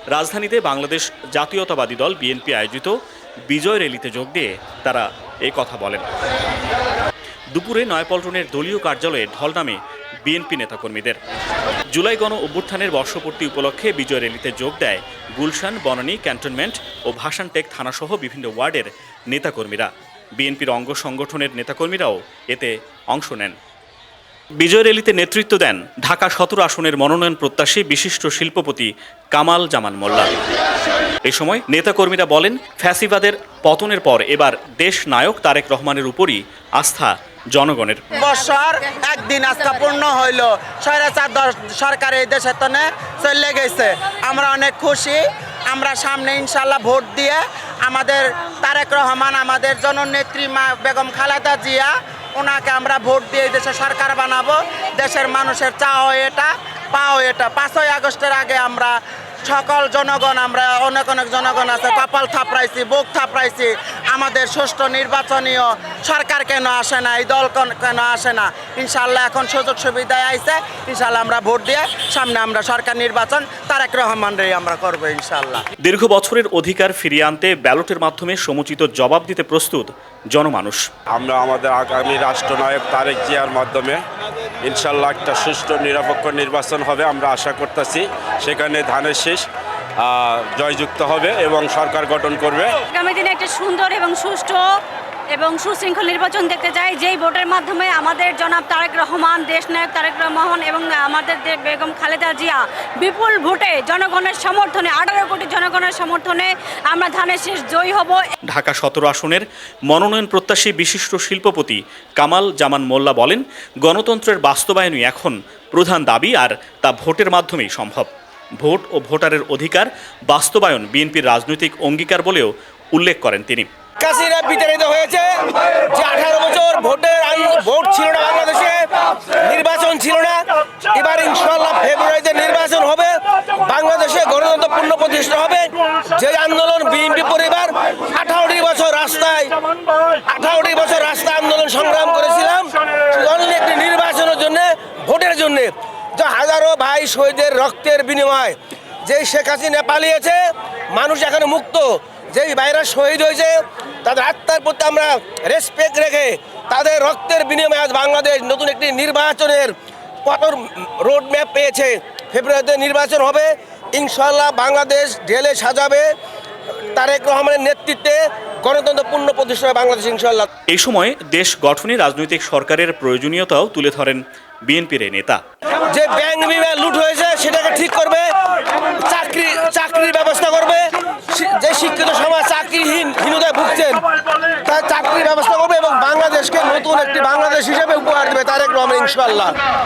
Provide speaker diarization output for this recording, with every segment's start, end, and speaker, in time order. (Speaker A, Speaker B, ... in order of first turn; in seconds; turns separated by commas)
Speaker A: 0.1-6.0, Speaker A: 7.5-11.2, Speaker A: 11.9-23.6, Speaker A: 24.6-30.3, Speaker A: 31.2-38.0, Speaker B: 38.1-75.6, Speaker A: 75.8-80.9, Speaker C: 81.1-84.0, Speaker C: 84.6-89.5, Speaker C: 90.0-92.7, Speaker D: 92.9-94.6, Speaker D: 95.3-108.3, Speaker A: 108.5-123.7, Speaker E: 124.0-139.6, Speaker E: 140.1-150.4, Speaker E: 150.9-166.1, Speaker E: 166.9-170.5, Speaker A: 170.7-175.4, Speaker E: 175.9-189.6